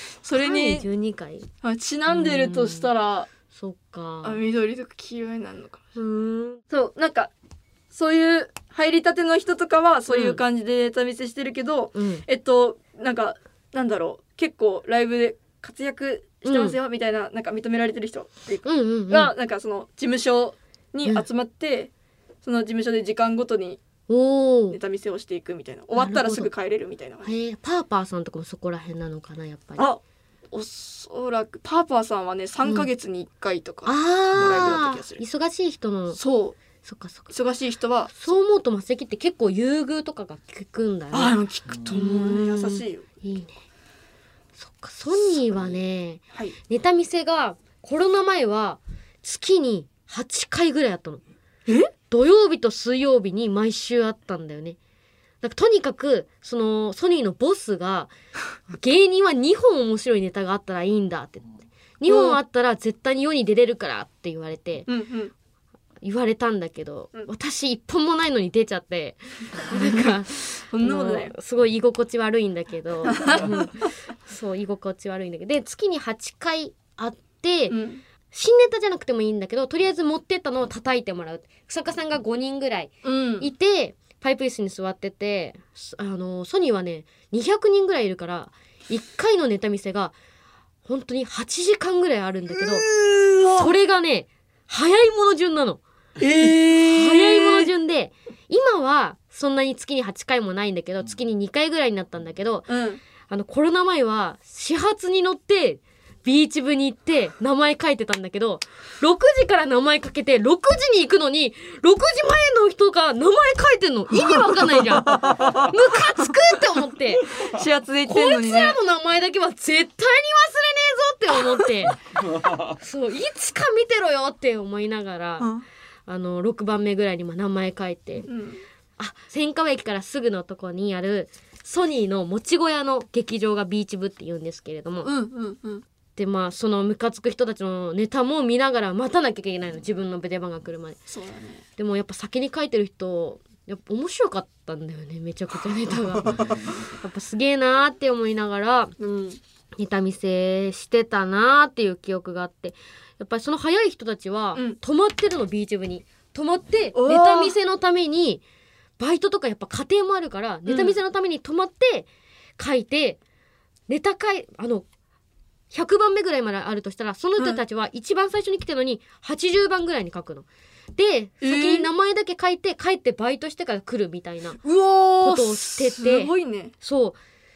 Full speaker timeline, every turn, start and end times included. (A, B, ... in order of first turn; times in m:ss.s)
0:00.2-0:00.9 A
0:00.4-0:01.5 B
0:01.6-0:03.3 A
0:02.1-0:02.9 B
0:03.5-0:04.4 B
0:04.2-0:05.8 A
0:06.0-0:06.6 B
0:06.7-0:07.3 A
0:07.9-0:21.9 A
0:10.1-0:10.4 B
0:12.0-0:12.2 B
0:16.4-0:16.8 B
0:18.6-0:19.3 B
0:22.4-0:23.8 A
0:24.1-0:24.8 B
0:24.7-0:27.3 A
0:26.0-0:26.5 B
0:27.2-0:29.9 B
0:30.5-0:35.2 A
0:33.9-0:36.2 B
0:36.1-0:36.6 A
0:36.8-0:37.3 B
0:37.3-0:38.1 A
0:38.2-0:41.4 B
0:41.1-0:43.0 A
0:41.9-0:43.5 B
0:44.6-0:51.2 B
0:52.1-0:54.8 B
0:55.4-0:58.1 B
0:58.7-1:04.9 B
1:02.1-1:02.4 A
1:04.9-1:05.3 A
1:06.0-1:17.8 B
1:09.6-1:11.3 A
1:13.0-1:13.9 A
1:17.7-1:18.0 A
1:18.3-1:30.1 B
1:23.0-1:23.5 A
1:30.9-1:32.9 B
1:32.6-1:33.7 A
1:33.6-1:35.8 B
1:36.2-1:37.7 A
1:36.9-1:42.7 B
1:42.7-1:43.0 A
1:43.3-1:57.3 B
1:55.1-1:55.7 A
1:57.3-1:58.8 A
1:58.1-2:02.0 B
2:02.8-2:05.5 B
2:05.4-2:05.6 A
2:06.1-2:08.3 B
2:08.3-2:08.6 A
2:09.0-2:15.1 B
2:15.0-2:15.8 A
2:16.2-2:21.0 B
2:21.1-2:21.6 A
2:21.8-2:28.9 B
2:29.0-2:29.4 A
2:29.8-2:38.4 B
2:37.0-2:37.6 A
2:39.0-2:42.1 B
2:40.7-2:41.0 A
2:42.6-2:43.2 B
2:43.9-2:44.8 B
2:45.7-2:54.6 B
2:51.4-2:51.9 A
2:54.6-2:56.8 A
2:55.2-2:57.2 B